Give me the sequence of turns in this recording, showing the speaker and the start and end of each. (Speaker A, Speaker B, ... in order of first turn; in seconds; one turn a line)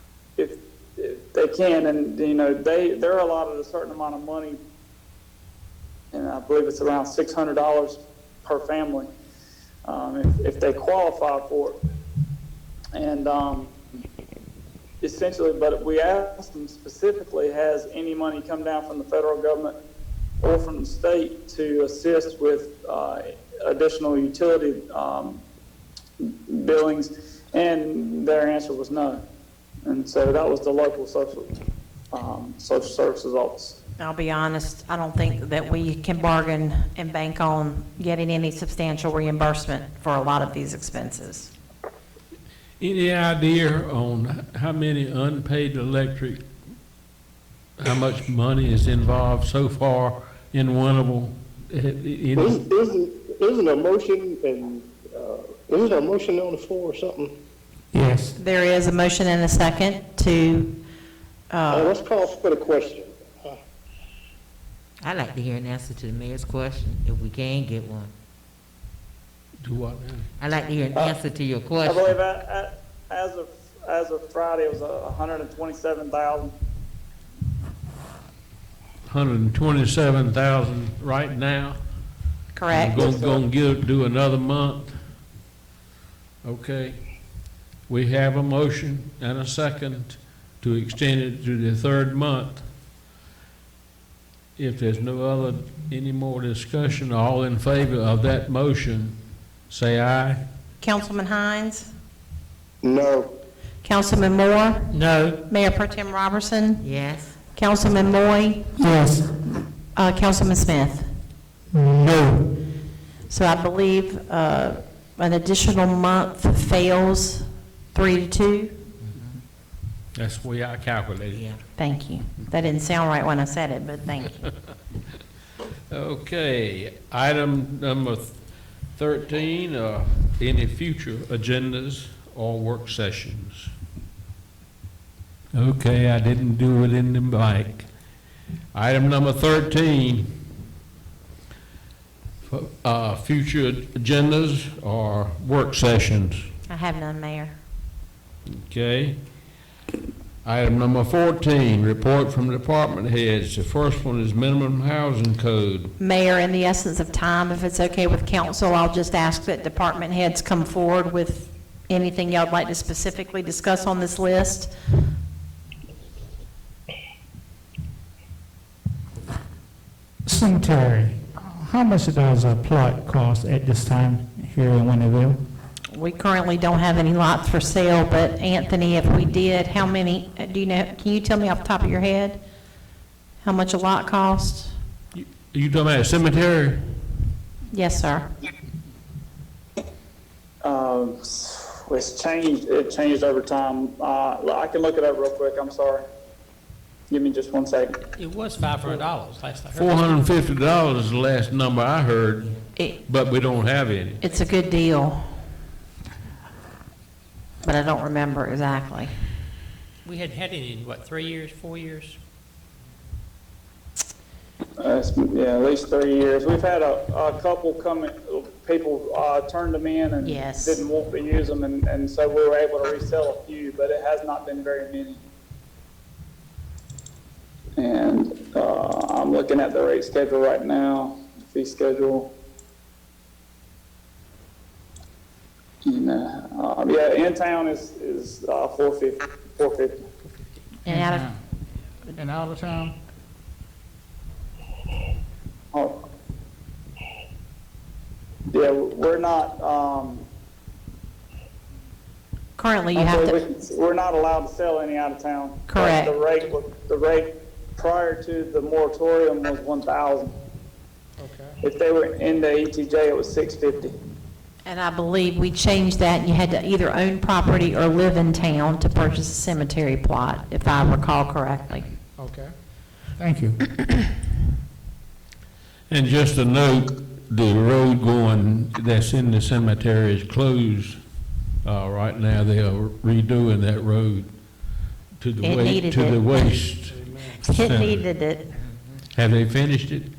Speaker A: 0.4-4.6
Speaker A: 6.1-9.1
Speaker A: 9.9-11.8
Speaker A: 12.9-13.7
Speaker A: 15.0-19.8
Speaker A: 20.4-25.4
Speaker A: 26.2-29.2
Speaker A: 29.9-31.6
Speaker A: 32.1-33.8
Speaker B: 34.0-41.5
Speaker C: 42.8-46.4
Speaker C: 47.8-52.6
Speaker D: 52.4-57.3
Speaker E: 57.9-58.4
Speaker B: 58.4-60.7
Speaker B: 61.5-61.9
Speaker D: 61.7-63.6
Speaker F: 65.0-68.1
Speaker C: 69.6-70.3
Speaker F: 70.4-72.1
Speaker A: 71.8-76.5
Speaker C: 79.0-81.8
Speaker B: 82.5-83.0
Speaker C: 82.7-85.0
Speaker A: 83.0-83.4
Speaker C: 86.4-87.0
Speaker C: 87.9-92.7
Speaker C: 94.6-99.2
Speaker C: 99.7-100.4
Speaker B: 100.8-101.9
Speaker D: 102.8-103.3
Speaker B: 103.8-106.9
Speaker G: 104.9-105.4
Speaker F: 106.8-107.3
Speaker B: 107.5-108.7
Speaker E: 108.8-109.3
Speaker B: 110.0-111.1
Speaker E: 111.7-112.5
Speaker B: 113.3-118.7
Speaker C: 120.1-121.6
Speaker B: 121.8-124.4
Speaker C: 125.9-133.7
Speaker C: 135.5-137.9
Speaker C: 138.7-140.3
Speaker C: 142.4-146.4
Speaker B: 146.7-147.6
Speaker C: 148.5-149.2
Speaker C: 150.4-155.9
Speaker B: 156.0-164.7
Speaker E: 170.3-175.4
Speaker B: 175.9-182.4
Speaker B: 183.4-184.7
Speaker C: 185.1-186.8
Speaker B: 187.7-188.3
Speaker A: 190.6-196.1
Speaker A: 197.1-198.0
Speaker G: 198.1-200.2
Speaker C: 199.7-204.2
Speaker B: 204.2-205.2
Speaker B: 207.6-209.3
Speaker G: 210.1-212.2
Speaker A: 214.8-225.2
Speaker B: 220.2-220.8
Speaker A: 227.8-232.3
Speaker A: 235.8-240.0
Speaker B: 240.8-241.3
Speaker E: 240.9-241.4
Speaker E: 242.1-242.9
Speaker A: 248.5-250.2
Speaker B: 252.6-253.4
Speaker A: 252.9-260.4
Speaker B: 255.7-256.1
Speaker E: 261.2-261.6
Speaker A: 261.6-263.9
Speaker B: 264.6-271.9
Speaker E: 272.2-272.5
Speaker E: 273.1-273.8
Speaker C: 275.9-281.0
Speaker C: 281.6-288.1
Speaker B: 285.4-286.5
Speaker B: 287.2-288.5
Speaker C: 289.1-290.1